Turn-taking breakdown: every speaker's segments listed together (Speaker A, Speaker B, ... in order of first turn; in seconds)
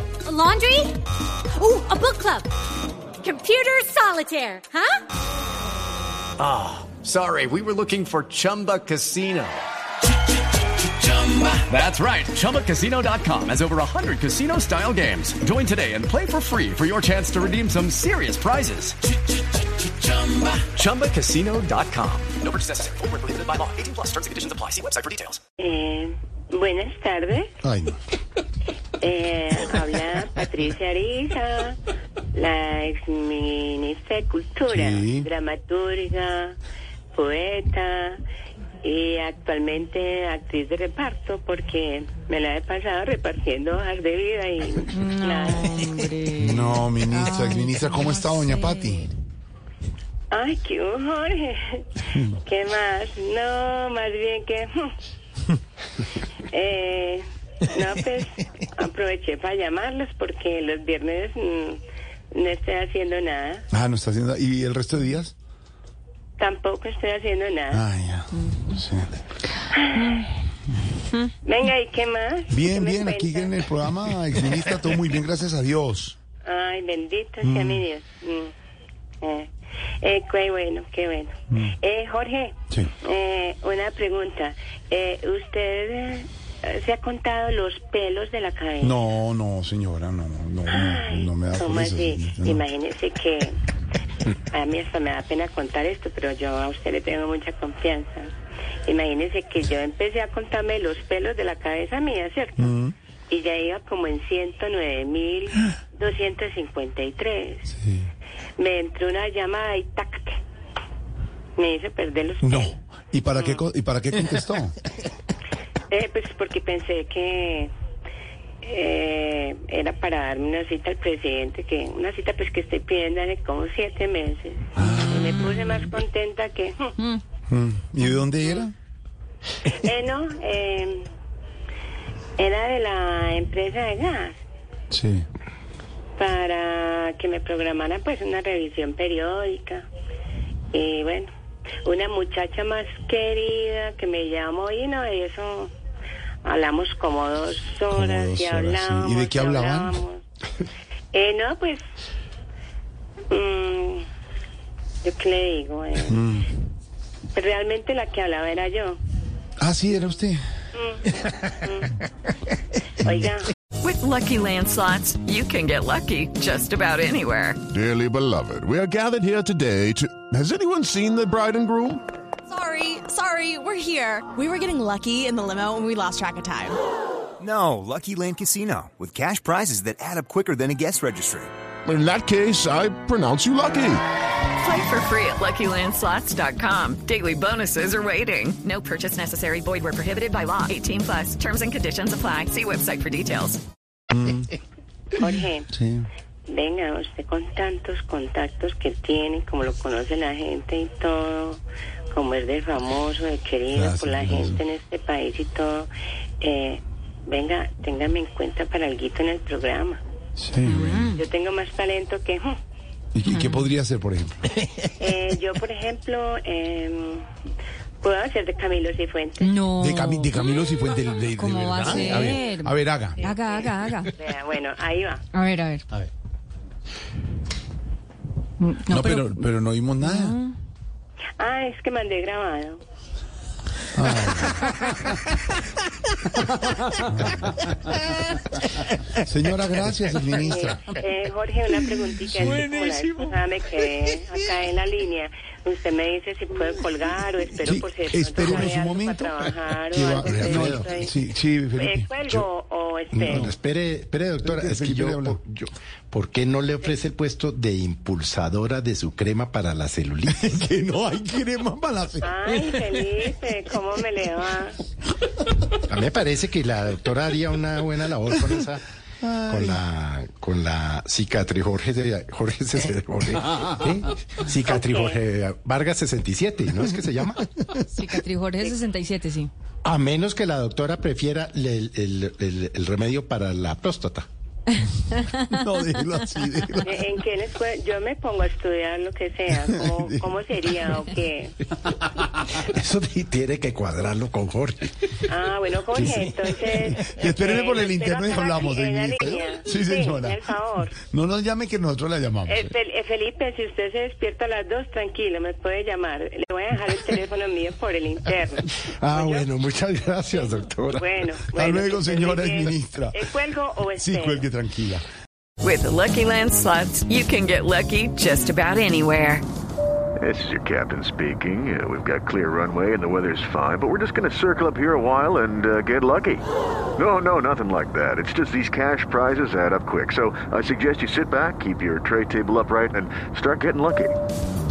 Speaker A: 0.2-1.0, 1.6-2.5, 3.2-5.0
Speaker B: 6.4-9.7, 11.1-19.0, 20.6-25.4
Speaker C: 25.6-27.5, 29.0-31.8, 32.3-36.6, 37.1-38.2, 38.8-46.0, 50.3-51.9, 52.4-54.9, 56.5-61.8, 62.3-63.6, 66.4-67.8, 69.7-70.2, 71.5-73.5, 76.5-78.5, 79.2-79.5, 80.0-88.9, 90.7-93.6, 94.5-98.3, 98.9-102.7, 103.3-107.6, 108.6-110.4, 111.6-112.8, 113.4-113.6, 115.9-117.7, 118.6-126.9, 129.7-131.1, 132.4-134.4, 136.2-139.9, 140.7-141.3, 141.8-145.7, 146.4-150.2, 151.1-151.8, 153.3-154.1, 155.0-156.1, 157.3-159.0, 160.8-161.9, 163.0-163.5, 195.2-195.7, 196.5-201.6, 202.1-205.9, 206.4-210.0, 211.2-212.6, 215.0-217.3, 218.0-219.5, 223.2-225.2, 231.4-232.8, 240.5-251.1, 251.8-253.5, 262.2-264.8, 274.9-275.2, 286.9-291.5, 295.3-300.9, 302.5-309.5, 311.0-314.4
Speaker D: 27.6-28.0, 34.7-35.3, 46.4-49.1, 52.1-52.4, 63.7-65.3, 67.7-69.1, 72.5-76.2, 77.4-77.9, 88.8-92.6, 102.6-102.9, 107.7-108.1, 112.4-114.8, 124.8-125.6, 127.5-128.7, 134.9-135.3, 147.9-150.0, 156.1-156.5, 159.6-160.4, 194.1-194.5, 195.2-196.1, 203.7-204.6, 210.4-211.1, 213.1-214.4, 219.8-223.2, 228.9-230.4, 233.9-234.6, 237.1-237.5, 239.2-240.8, 242.4-242.7, 247.6-252.5, 254.4-255.4, 260.3-262.9, 269.2-269.8, 285.5-287.1, 289.7-290.4, 296.0-296.3, 296.9-302.7, 311.6-313.3, 314.0-315.1
Speaker E: 44.9-49.1, 210.7-211.2, 213.3-213.7, 219.4-220.5, 221.4-224.1, 225.3-225.8, 228.6-229.3, 230.0-230.5, 277.9-279.5
Speaker F: 163.8-167.6, 184.6-193.6, 315.6-319.4
Speaker G: 167.7-172.0, 181.9-184.0
Speaker H: 172.5-176.8
Speaker I: 177.4-181.5
Speaker J: 250.2-250.9, 253.1-260.5, 265.9-268.8, 269.5-277.5, 279.8-284.3, 292.5-295.2, 296.0-296.7, 309.0-311.3
Speaker K: 320.2-326.4, 327.0-334.2